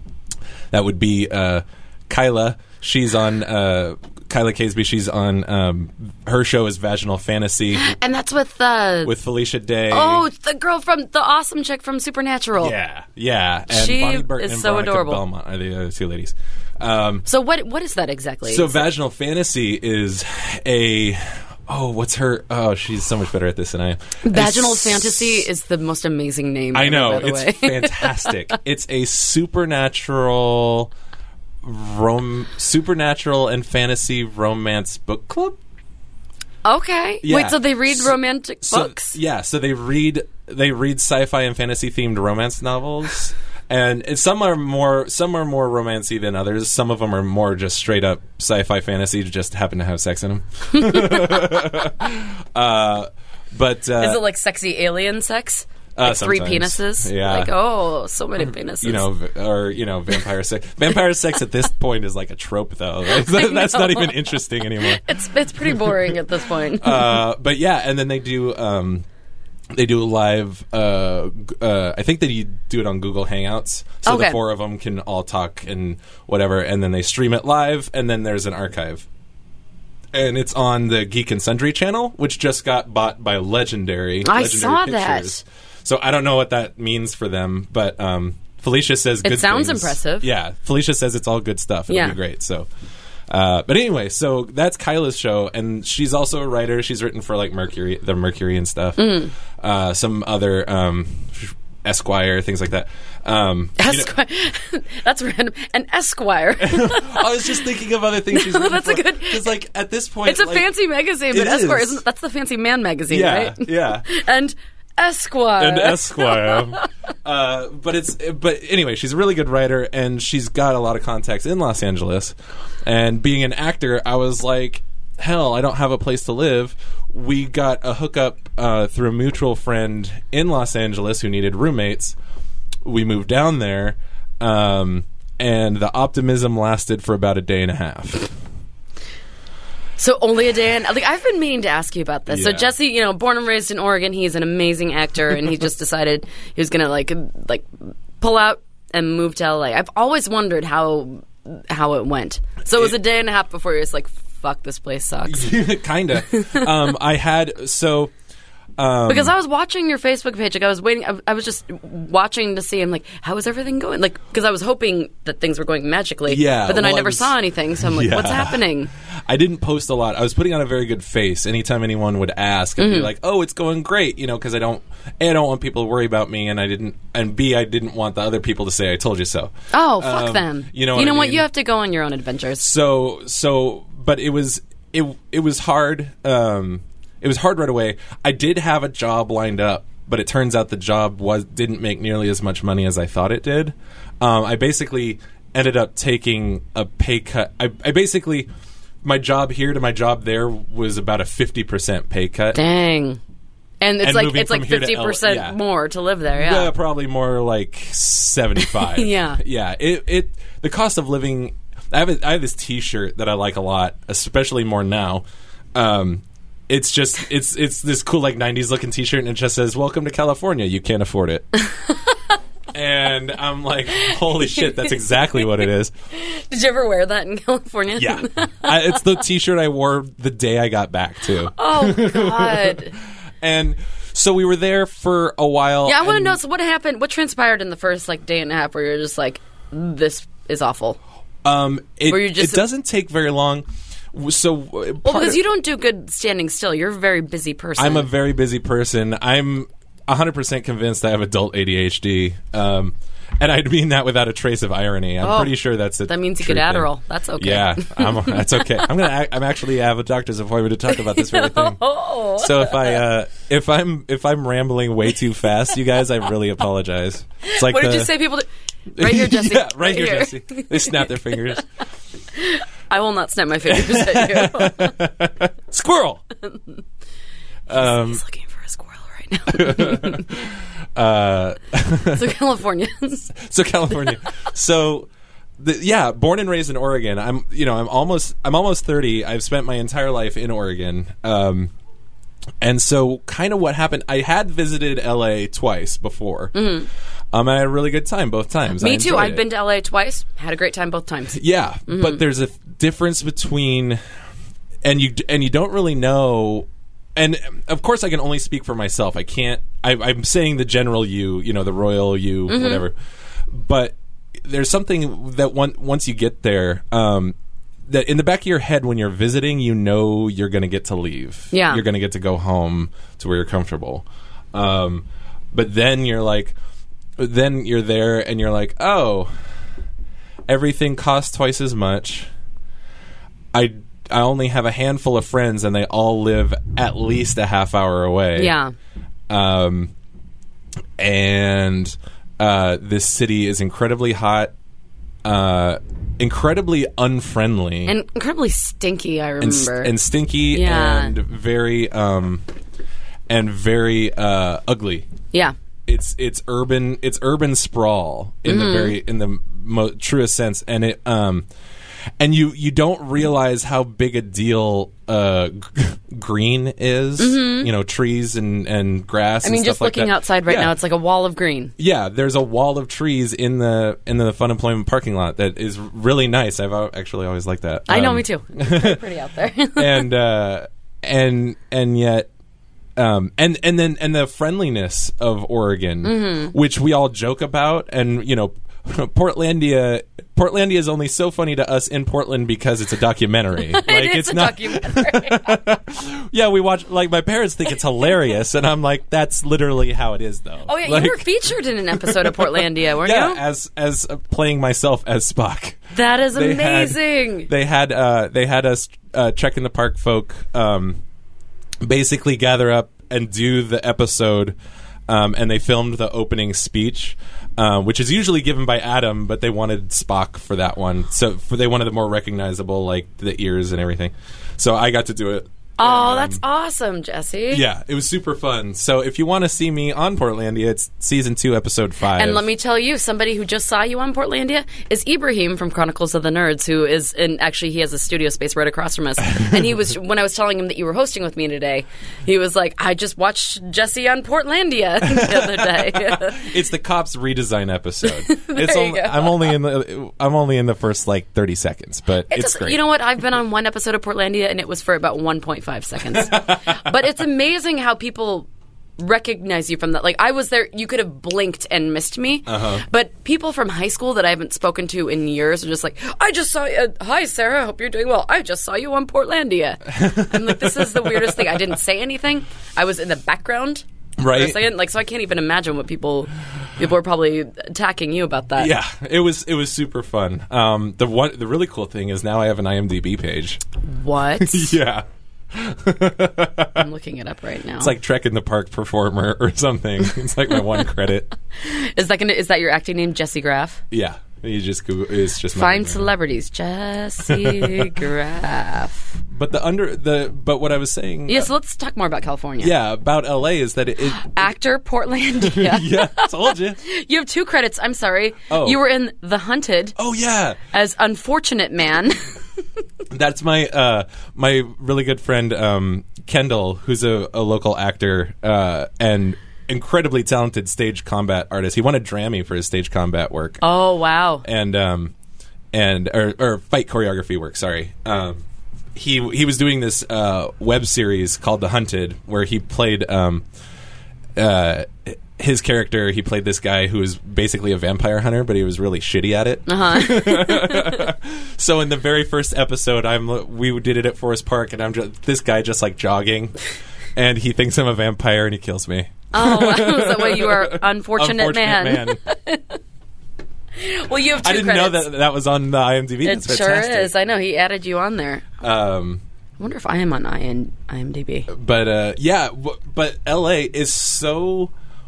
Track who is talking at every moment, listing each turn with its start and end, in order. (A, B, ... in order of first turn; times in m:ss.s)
0:00.7-0:07.9 A
0:07.7-0:09.1 B
0:09.0-0:10.2 A
0:09.9-0:12.7 B
0:12.6-0:17.2 A
0:13.7-0:15.2 B
0:17.2-0:18.8 B
0:18.5-0:25.5 A
0:24.2-0:28.3 B
0:26.7-0:30.9 A
0:31.6-0:35.6 A
0:36.6-0:39.2 B
0:37.2-0:54.2 A
0:50.8-0:51.4 B
0:54.0-0:59.1 B
0:56.0-0:57.5 A
0:58.8-1:05.1 A
1:03.2-1:07.2 B
1:05.6-1:06.1 A
1:06.8-1:09.0 A
1:09.7-1:19.0 A
1:14.0-1:14.4 B
1:20.1-1:32.7 A
1:24.2-1:25.4 B
1:29.2-1:30.3 B
1:31.9-1:32.2 B
1:33.3-1:44.1 A
1:39.0-1:39.3 B
1:43.8-1:47.6 B
1:46.6-1:50.7 A
1:48.3-1:49.5 B
1:50.2-1:56.9 B
1:51.3-1:52.0 A
1:53.1-1:54.1 A
1:55.6-2:12.2 A
2:12.8-2:18.3 A
2:20.0-2:35.6 B
2:22.3-2:22.7 A
2:35.2-2:38.1 A
2:36.3-2:36.6 B
2:38.8-2:39.3 A
2:39.1-2:48.9 B
2:46.3-2:48.6 A
2:49.2-3:01.4 A
2:52.8-2:53.1 B
2:59.7-3:02.6 B
3:02.6-3:18.5 A
3:19.0-3:22.6 A
3:22.5-3:23.2 B
3:23.8-3:26.7 B
3:24.0-3:25.6 A
3:26.3-3:35.2 A
3:28.8-3:29.4 B
3:35.7-3:41.5 A
3:42.7-3:45.9 A
3:44.3-3:45.6 B
3:46.2-3:49.0 B
3:48.0-3:52.8 A
3:51.5-3:52.9 B
3:53.4-3:56.4 A
3:55.8-4:01.0 B
4:01.4-4:05.4 A
4:02.1-4:02.6 B
4:05.0-4:08.1 B
4:07.8-4:28.1 A
4:15.2-4:18.8 B
4:20.9-4:23.0 B
4:27.4-4:31.1 B
4:29.0-4:31.6 A
4:32.3-4:35.0 B
4:33.6-4:36.2 A
4:37.7-4:38.2 A
4:37.7-4:40.4 B
4:39.5-4:42.3 A
4:42.1-4:43.3 B
4:43.3-4:51.7 A
4:52.6-4:56.6 A
4:56.5-4:56.9 B
4:57.3-4:59.4 A
4:58.8-5:02.2 B
5:01.3-5:04.0 A
5:04.8-5:12.9 A
5:12.5-5:12.8 B
5:13.5-5:17.3 A
5:17.9-5:26.5 A
5:21.5-5:21.8 B
5:27.2-5:29.3 A
5:30.5-5:32.3 A
5:33.5-5:38.5 A
5:38.4-5:38.7 B
5:39.3-5:39.9 A
5:41.0-5:44.5 A
5:45.2-5:47.9 A
5:47.8-5:49.9 B
5:49.4-5:52.4 A
5:50.5-5:51.1 B
5:53.3-5:55.1 A
5:55.8-6:01.5 A
5:58.5-5:59.0 B
6:02.2-6:10.7 A
6:07.2-6:07.7 B
6:09.4-6:11.7 B
6:11.8-6:19.0 A
6:17.9-6:20.0 B
6:19.8-6:22.3 A
6:23.0-6:41.3 A
6:26.0-6:26.5 B
6:33.7-6:35.6 B
6:40.6-6:43.4 B
6:41.9-6:51.0 A
6:45.9-6:47.5 B
6:51.8-6:54.6 A
6:55.1-7:06.4 A
7:05.8-7:07.6 B
7:07.5-7:12.4 A
7:12.1-7:26.5 B
7:25.0-7:32.8 A
7:28.1-7:29.5 B
7:32.3-7:58.7 B
7:36.1-7:36.9 A
7:42.5-7:42.8 A
7:49.9-7:51.7 A
7:54.2-7:54.6 A
7:58.6-8:03.6 A
8:03.8-8:04.8 B
8:04.4-8:06.8 A
8:06.7-8:07.9 B
8:07.8-8:11.3 A
8:11.6-8:13.8 B
8:13.9-8:16.1 A
8:15.5-8:19.2 B
8:17.3-8:18.0 A
8:19.3-8:21.5 A
8:21.3-8:22.7 B
8:22.6-8:24.4 A
8:24.1-8:30.0 B
8:25.4-8:26.8 A
8:28.5-8:28.8 A
8:30.0-8:30.6 A
8:30.7-8:32.3 B
8:33.1-8:43.6 A
8:43.6-8:44.4 B
8:44.4-8:45.1 A
8:45.7-8:48.4 A
8:48.9-8:53.4 A
8:54.4-9:06.6 A
8:59.7-9:01.1 B
9:07.2-9:12.2 A
9:09.3-9:12.8 B
9:13.8-9:15.0 B
9:14.4-9:17.1 A
9:16.2-9:18.4 B
9:18.6-9:19.2 A
9:19.6-9:21.5 B
9:21.5-9:24.7 A